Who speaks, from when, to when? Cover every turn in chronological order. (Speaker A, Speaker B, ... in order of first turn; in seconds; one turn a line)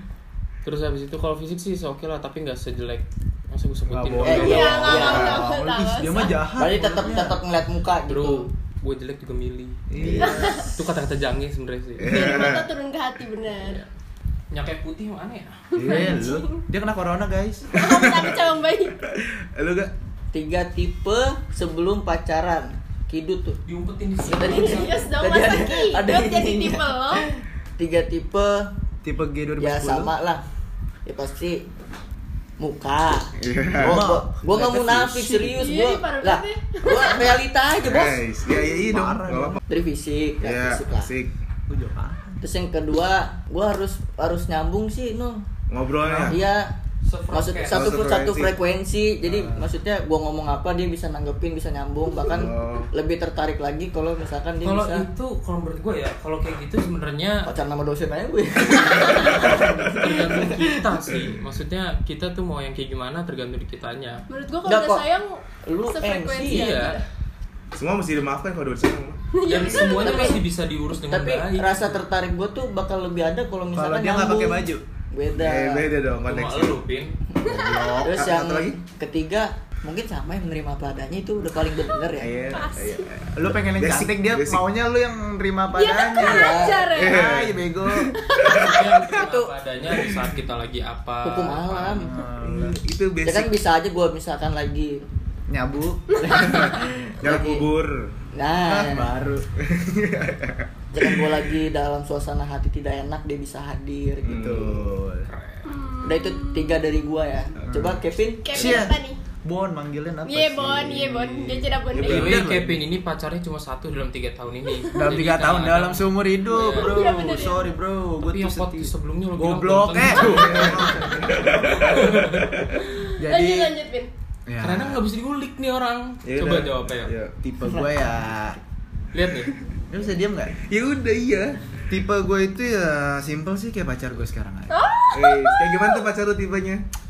Speaker A: 0.6-5.2
Speaker B: 3.9-7.4
Speaker C: 4.2-5.5
Speaker D: 4.3-6.5
Speaker C: 6.5-8.5
Speaker A: 8.1-12.5
Speaker B: 9.9-10.7
Speaker D: 10.2-10.7
Speaker E: 12.0-12.7
Speaker D: 12.1-13.8
Speaker A: 13.6-13.9
Speaker A: 14.5-15.7
Speaker D: 15.8-16.6
Speaker B: 15.8-17.7
Speaker D: 17.7-19.0
Speaker E: 17.7-18.4
Speaker E: 19.0-19.9
Speaker C: 20.3-23.6
Speaker A: 23.7-25.1
Speaker C: 24.2-28.7
Speaker D: 24.4-27.2
Speaker B: 29.0-30.1
Speaker C: 29.6-30.4
Speaker C: 31.1-31.7
Speaker C: 32.6-38.2
Speaker E: 33.4-34.1
Speaker B: 33.8-35.7
Speaker D: 35.5-37.4
Speaker E: 37.8-39.6
Speaker B: 38.7-39.6
Speaker C: 39.7-41.1
Speaker E: 40.4-41.3
Speaker B: 41.7-42.4
Speaker C: 42.4-45.5
Speaker E: 45.7-46.4
Speaker B: 46.0-46.4
Speaker C: 46.2-46.8
Speaker A: 47.0-48.0
Speaker C: 47.3-55.1
Speaker E: 47.7-48.6
Speaker B: 49.2-49.7
Speaker E: 52.2-52.9
Speaker A: 54.6-57.5
Speaker C: 57.5-60.7
Speaker A: 59.3-64.2
Speaker D: 64.3-67.0
Speaker C: 64.7-65.0
Speaker C: 65.7-66.7
Speaker A: 66.5-67.0
Speaker E: 67.7-69.2
Speaker D: 69.3-70.4
Speaker A: 69.4-72.0
Speaker C: 69.7-70.5
Speaker C: 71.1-75.9
Speaker B: 73.7-74.8
Speaker E: 75.3-76.8
Speaker A: 76.3-77.2
Speaker C: 77.3-82.3
Speaker B: 77.5-78.6
Speaker D: 77.5-78.0
Speaker E: 77.6-78.7
Speaker E: 82.2-84.7
Speaker D: 82.5-83.1
Speaker B: 83.4-88.2
Speaker D: 85.7-87.2
Speaker C: 86.2-86.9
Speaker E: 86.9-88.8
Speaker D: 88.2-88.6
Speaker A: 88.4-92.0
Speaker C: 88.4-89.5
Speaker C: 91.2-92.2
Speaker B: 91.9-92.8
Speaker E: 92.4-93.5
Speaker C: 93.2-95.0
Speaker B: 95.5-96.8
Speaker C: 96.6-97.7
Speaker E: 97.2-98.1
Speaker C: 98.3-99.1
Speaker B: 98.7-99.5
Speaker E: 99.6-101.4
Speaker C: 100.9-104.7
Speaker E: 104.2-105.0
Speaker B: 104.3-105.3
Speaker A: 105.3-105.8
Speaker D: 105.7-106.8
Speaker C: 106.0-108.9
Speaker B: 107.7-112.8
Speaker D: 108.4-109.2
Speaker D: 110.3-112.4
Speaker E: 111.9-112.4
Speaker A: 112.0-117.0
Speaker B: 114.9-122.0
Speaker D: 116.6-117.7
Speaker A: 118.2-121.1
Speaker E: 120.3-122.8
Speaker A: 121.7-122.5
Speaker D: 122.8-124.1
Speaker B: 123.2-123.8
Speaker B: 124.5-125.0
Speaker A: 124.6-127.1
Speaker E: 126.2-127.4
Speaker B: 127.4-128.6
Speaker A: 129.1-129.5
Speaker B: 129.9-130.6
Speaker E: 130.6-131.6
Speaker B: 131.9-134.9
Speaker D: 134.7-136.0
Speaker E: 135.1-136.8